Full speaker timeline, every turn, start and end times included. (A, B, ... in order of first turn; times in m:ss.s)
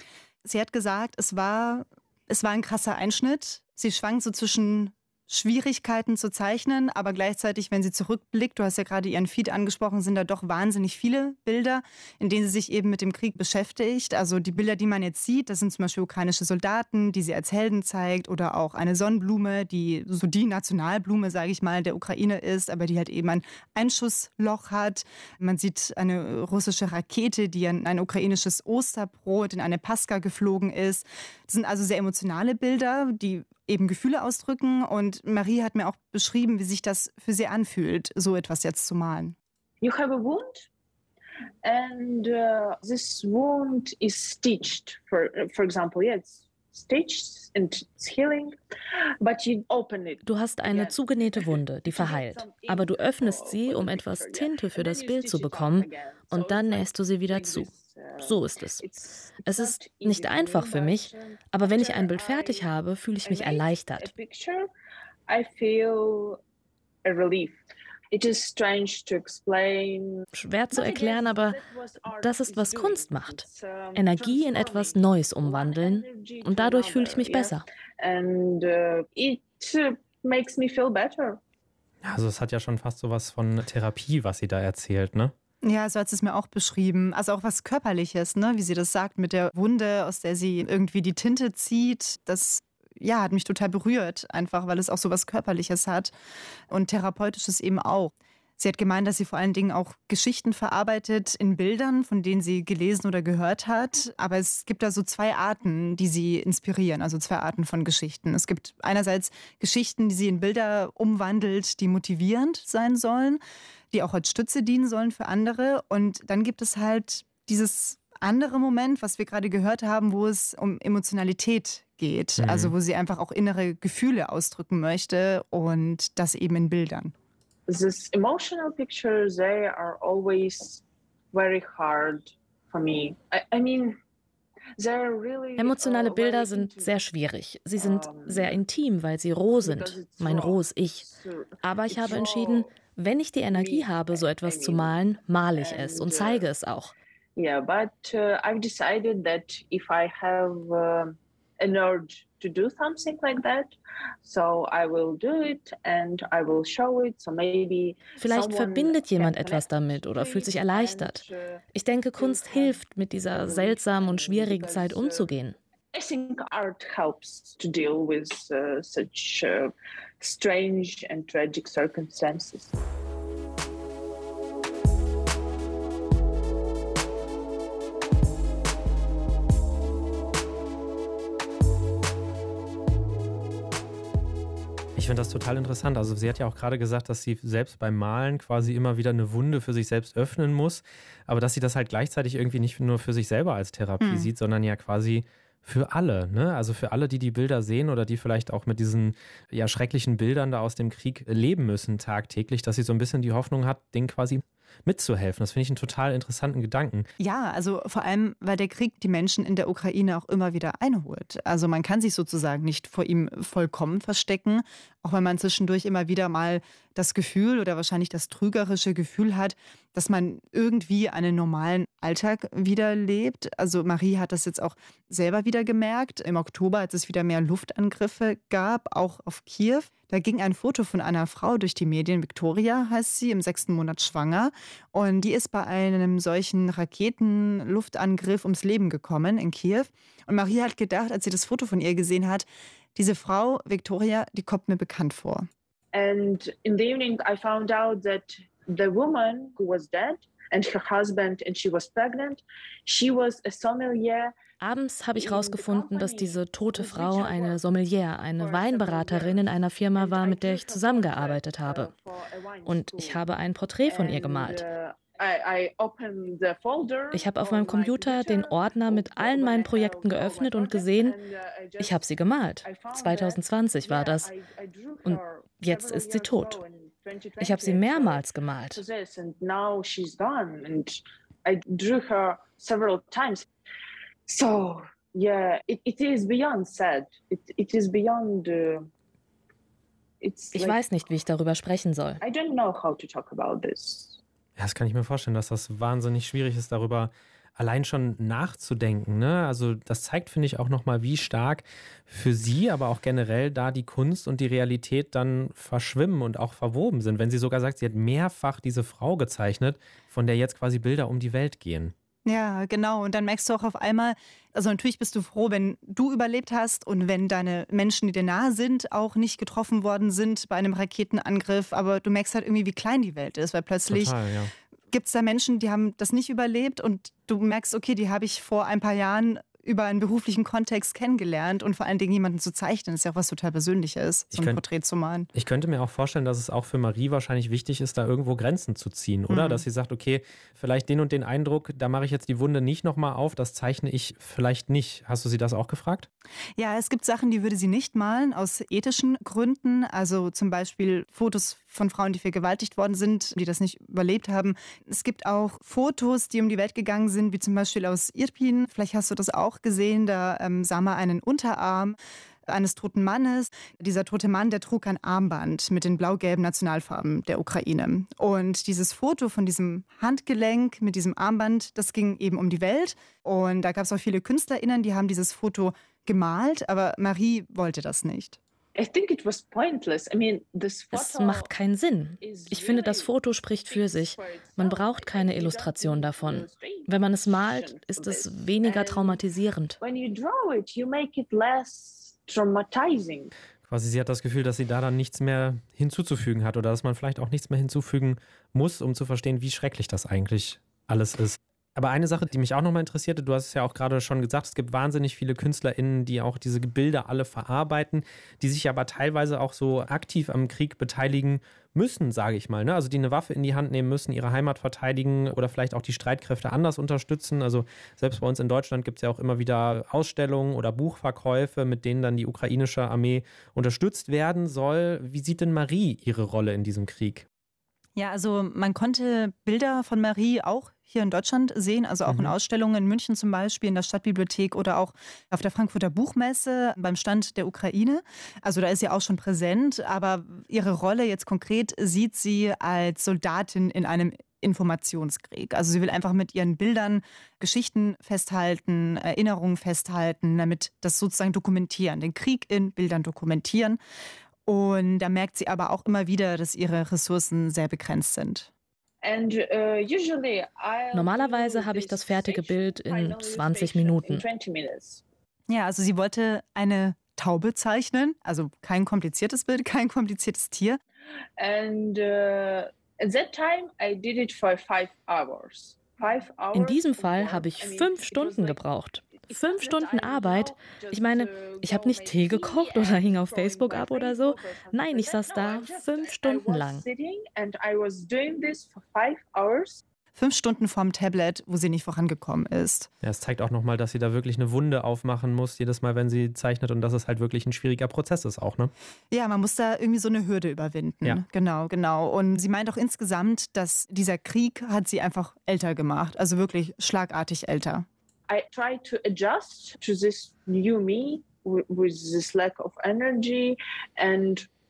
0:00.4-0:39.3 A
0:39.8-0:40.7 B
0:41.6-0:48.6 B
0:49.2-1:02.7 B
0:50.2-0:57.7 C
0:58.2-0:58.8 C
0:59.4-1:04.1 C
1:03.2-1:04.7 B
1:05.3-1:06.4 B
1:07.0-1:07.6 B
1:08.1-1:21.4 B
1:10.3-1:11.6 C
1:12.2-1:17.6 C
1:22.0-1:25.3 D
1:25.6-1:36.1 A
1:36.7-1:53.4 A
1:53.9-2:07.1 A
2:02.4-2:02.7 D
2:07.7-2:14.0 B
2:14.8-2:17.0 B
2:15.6-2:21.0 C
2:17.8-2:18.6 B
2:19.6-2:22.7 B
2:21.6-2:26.9 C
2:23.5-2:25.0 B
2:25.5-2:26.5 B
2:27.4-2:41.6 B
2:38.2-2:41.2 C
2:41.7-2:45.6 C
2:42.2-2:45.3 B
2:45.9-2:52.7 B
3:05.0-3:27.1 D
3:14.0-3:14.3 A
3:27.2-4:05.5 A
4:05.9-4:14.3 B
4:14.6-4:21.9 C
4:15.1-4:17.6 B
4:18.4-4:23.2 B
4:22.6-4:24.6 C
4:23.8-4:32.1 B
4:27.1-4:31.2 C
4:31.8-4:34.3 C
4:32.6-4:43.5 B
4:35.1-4:36.6 C
4:37.4-4:38.8 C
4:44.3-4:48.9 B
4:50.2-4:50.8 B
4:50.5-4:52.2 C
4:52.2-4:54.2 B
4:54.6-5:11.9 D
5:12.2-5:24.1 A
5:23.9-5:24.5 D
5:24.9-5:35.3 A
5:34.3-5:34.6 D
5:35.3-5:46.1 D
5:39.3-5:39.6 A
5:46.6-6:18.4 A
6:18.7-6:21.5 B
6:20.9-6:29.8 C
6:22.2-6:23.1 B
6:23.6-6:29.2 B
6:29.8-6:33.3 B
6:33.6-7:07.2 D
7:08.0-7:33.8 A
7:12.0-7:12.3 D
7:34.4-7:38.5 A
7:39.0-7:45.0 B
7:40.9-7:44.2 C
7:45.5-7:50.8 A
7:51.4-7:58.6 B
7:56.5-8:06.8 C
7:59.1-8:09.8 B
8:10.1-8:12.9 A
8:13.0-8:18.7 D
8:19.1-8:27.9 A
8:28.3-8:34.5 B